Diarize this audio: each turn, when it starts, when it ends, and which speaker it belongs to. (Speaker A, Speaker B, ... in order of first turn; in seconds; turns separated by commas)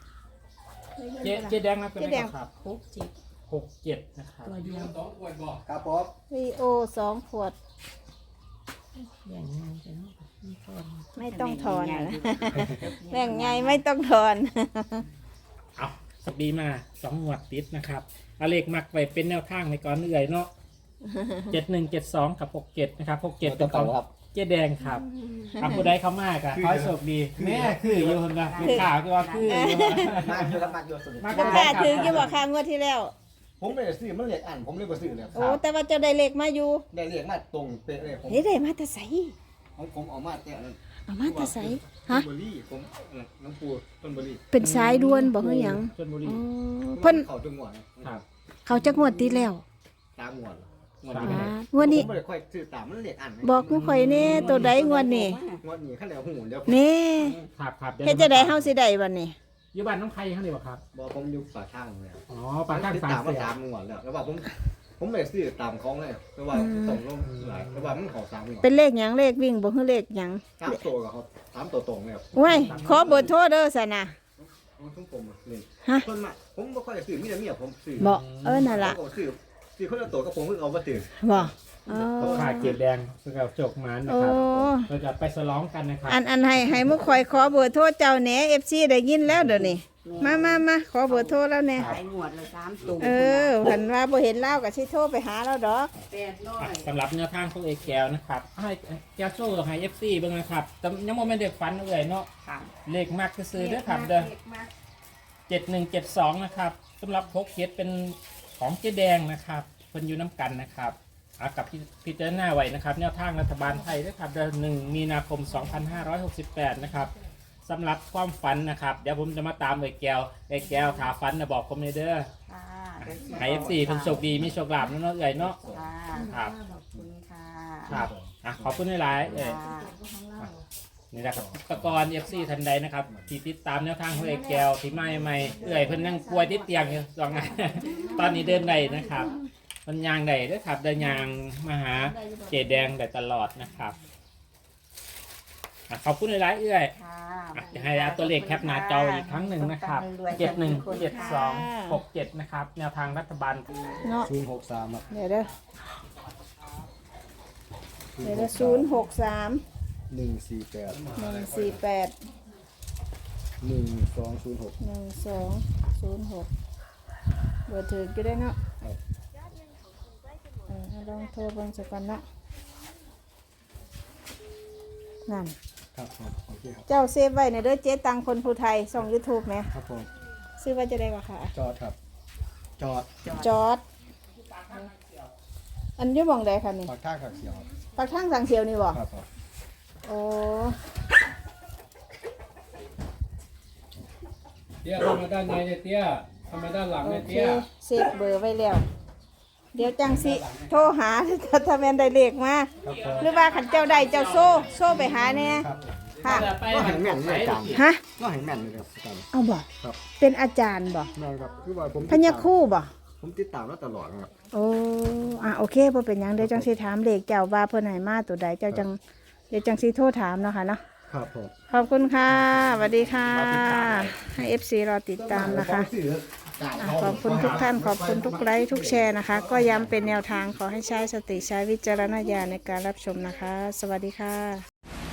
Speaker A: 1.0-2.3, Speaker B: 1.2-2.6, Speaker C: 2.6-3.1, Speaker B: 3.5-5.6, Speaker C: 4.4-5.0, Speaker D: 5.7-6.1, Speaker A: 6.3-7.5, Speaker C: 8.9-11.1, Speaker A: 11.2-15.1, Speaker E: 11.2-13.8, Speaker B: 15.8-20.5, Speaker A: 21.1-21.6, Speaker B: 21.5-25.1, Speaker D: 23.4-24.1, Speaker E: 24.8-25.8, Speaker B: 25.6-30.6, Speaker A: 25.6-25.9, Speaker D: 26.5-28.2, Speaker E: 28.4-30.0, Speaker A: 29.5-30.1, Speaker D: 30.1-32.4, Speaker B: 31.2-32.4, Speaker A: 31.3-33.1, Speaker D: 33.6-35.6, Speaker A: 35.4-36.8, Speaker D: 36.9-38.5, Speaker A: 38.3-39.4, Speaker D: 39.8-44.5, Speaker A: 41.1-42.3, Speaker A: 44.5-47.2, Speaker B: 44.6-46.4, Speaker D: 47.0-48.1, Speaker A: 48.7-49.6, Speaker D: 50.2-50.7, Speaker B: 51.0-51.5, Speaker E: 51.0-51.5, Speaker D: 51.2-54.2, Speaker A: 51.2-52.1, Speaker A: 53.4-55.4, Speaker B: 53.7-54.8, Speaker E: 54.2-55.6, Speaker D: 55.6-56.8, Speaker A: 56.7-57.4, Speaker E: 57.2-57.5, Speaker B: 57.6-58.7, Speaker A: 58.0-59.4, Speaker B: 59.7-60.8, Speaker D: 60.9-68.7, Speaker B: 62.3-63.5, Speaker A: 66.5-67.0, Speaker B: 67.3-67.9, Speaker A: 68.6-70.8, Speaker D: 70.6-73.3, Speaker A: 72.3-74.2, Speaker B: 72.3-73.3, Speaker D: 74.4-81.3, Speaker A: 78.0-79.0, Speaker B: 78.0-78.7, Speaker A: 81.2-82.8, Speaker D: 81.9-82.8, Speaker B: 82.2-86.2, Speaker A: 84.1-84.9, Speaker A: 86.1-92.0, Speaker E: 89.4-93.6, Speaker A: 93.0-95.9, Speaker E: 96.1-96.7, Speaker C: 96.4-96.9, Speaker B: 96.6-102.3, Speaker E: 102.4-102.7, Speaker B: 102.9-104.3, Speaker C: 103.7-104.5, Speaker B: 105.5-117.1, Speaker B: 117.7-122.3, Speaker E: 122.5-124.2, Speaker B: 123.0-125.6, Speaker D: 123.3-124.5, Speaker D: 125.4-125.9, Speaker E: 125.7-128.1, Speaker B: 126.3-126.5, Speaker B: 127.9-129.6, Speaker D: 127.9-128.8, Speaker E: 129.2-130.0, Speaker B: 131.1-144.0, Speaker D: 131.3-132.1, Speaker A: 135.6-135.9, Speaker A: 137.8-139.4, Speaker A: 142.0-142.9, Speaker B: 145.9-146.9, Speaker E: 146.9-151.4, Speaker B: 147.5-153.9, Speaker A: 150.9-152.0, Speaker A: 154.0-154.3, Speaker D: 154.2-155.1, Speaker A: 155.1-155.5, Speaker D: 158.2-158.9, Speaker A: 158.2-159.6, Speaker D: 160.1-161.8, Speaker A: 161.2-162.2, Speaker D: 163.6-164.8, Speaker A: 164.8-166.5, Speaker A: 167.7-168.6, Speaker A: 170.7-172.2, Speaker A: 175.3-175.5, Speaker D: 175.9-176.9, Speaker A: 176.9-179.7, Speaker D: 179.7-180.1, Speaker A: 180.6-181.5, Speaker D: 181.5-182.0, Speaker D: 182.8-183.1, Speaker E: 183.2-183.5, Speaker A: 183.4-183.8, Speaker B: 184.6-185.1, Speaker A: 186.0-186.9, Speaker D: 186.8-187.7, Speaker A: 187.9-189.0, Speaker D: 188.9-189.3, Speaker A: 190.1-190.8, Speaker B: 194.8-197.7, Speaker A: 197.0-198.8, Speaker A: 199.7-205.7, Speaker B: 200.1-200.9, Speaker B: 202.8-205.6, Speaker D: 202.8-203.3, Speaker D: 205.1-205.9, Speaker B: 206.2-207.8, Speaker A: 206.2-206.5, Speaker D: 206.6-209.3, Speaker A: 207.7-208.0, Speaker A: 209.3-211.1, Speaker D: 211.2-212.5, Speaker A: 212.1-212.9, Speaker D: 213.2-214.3, Speaker A: 214.5-219.0, Speaker D: 216.4-216.8, Speaker A: 219.5-220.8, Speaker D: 221.1-221.5, Speaker A: 221.7-225.9, Speaker D: 222.3-224.3, Speaker D: 225.2-230.3, Speaker A: 226.8-234.6, Speaker B: 227.3-227.6